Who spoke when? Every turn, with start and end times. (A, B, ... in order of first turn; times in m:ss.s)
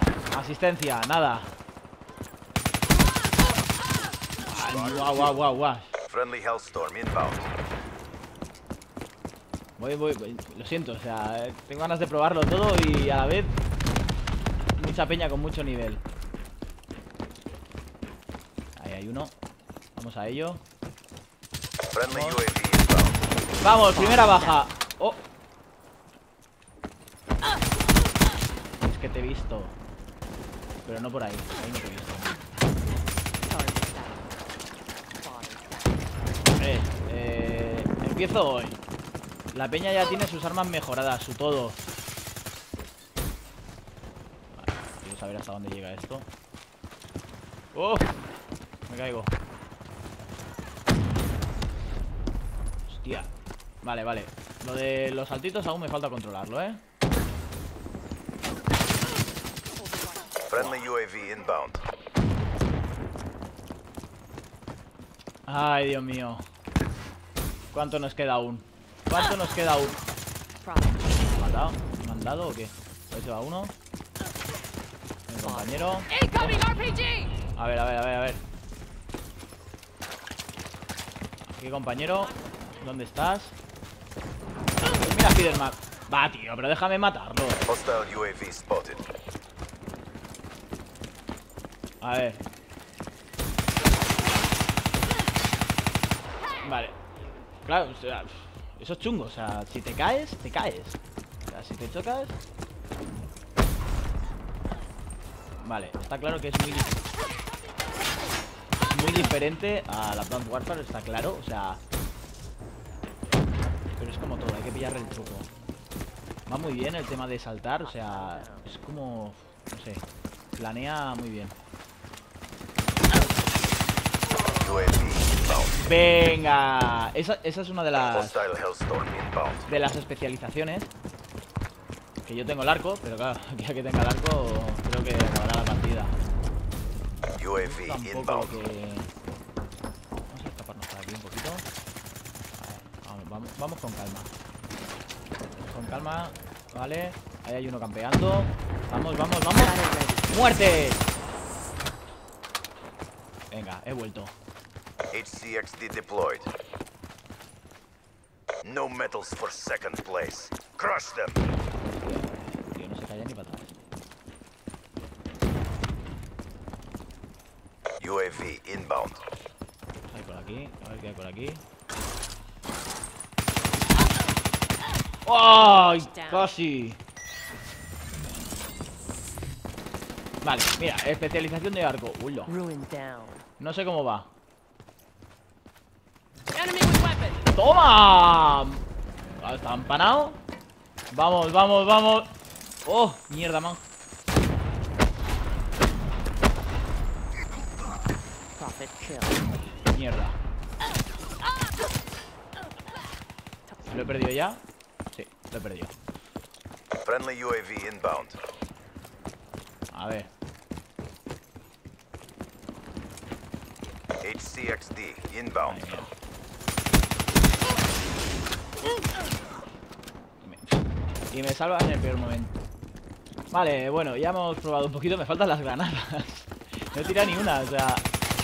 0:00.3-0:01.5 A
0:04.4-0:05.9 A
0:04.6-0:05.3 B
0:06.0-0:07.5 B
0:09.8-0:13.6 A
0:14.8-0:16.0 A
0:18.8-0:19.3 A
0:20.0-0:20.6 A
0:21.9-0:23.2 B
0:22.0-0:22.4 A
0:23.6-0:25.2 A
0:23.9-0:24.6 C
0:28.8-0:29.8 A
0:30.8-0:32.3 A
0:33.4-0:34.3 C
0:35.1-0:36.0 C
0:36.6-0:38.8 A
0:39.5-0:41.8 A
0:44.5-0:46.3 A
0:47.7-0:48.1 A
0:48.9-0:49.3 A
0:52.9-0:53.3 A
0:53.8-0:56.8 A
0:59.8-1:00.9 C
1:00.5-1:01.8 B
1:05.5-1:06.4 A
1:07.7-1:10.0 A
1:10.6-1:11.1 C
1:11.2-1:13.7 A
1:15.3-1:16.8 A
1:15.4-1:17.3 C
1:17.5-1:18.4 A
1:21.5-1:23.6 A
1:24.8-1:27.7 A
1:27.6-1:29.0 B
1:32.0-1:32.4 A
1:36.6-1:37.0 A
1:37.6-1:42.4 A
1:45.6-1:47.0 A
1:48.8-1:51.8 A
1:53.9-1:55.5 A
1:56.5-2:00.0 A
1:57.8-1:58.7 C
2:00.6-2:01.5 A
2:04.5-2:05.8 B
2:05.8-2:08.5 A
2:07.9-2:09.7 B
2:09.7-2:10.9 A
2:12.2-2:16.1 A
2:17.3-2:18.6 B
2:17.5-2:19.1 A
2:20.3-2:21.6 A
2:22.6-2:24.3 A
2:25.7-2:31.0 A
2:29.5-2:30.3 C
2:33.5-2:34.3 A
2:35.1-2:36.5 B
2:38.6-2:41.5 B
2:41.9-2:43.8 A
2:48.0-2:49.3 B
2:50.1-2:51.6 A
2:55.2-2:57.0 A
2:56.0-2:56.5 C
3:00.4-3:02.5 A
3:02.4-3:03.4 C
3:03.6-3:04.3 A
3:06.6-3:07.3 C
3:07.4-3:08.8 A
3:09.4-3:10.4 A
3:11.1-3:13.8 A
3:18.5-3:19.4 C
3:19.9-3:20.4 A
3:23.9-3:24.6 A
3:25.1-3:25.9 A
3:27.0-3:28.4 B
3:29.9-3:30.3 A
3:34.2-3:35.9 B
3:35.6-3:36.1 A
3:40.4-3:42.5 A
3:43.5-3:48.1 A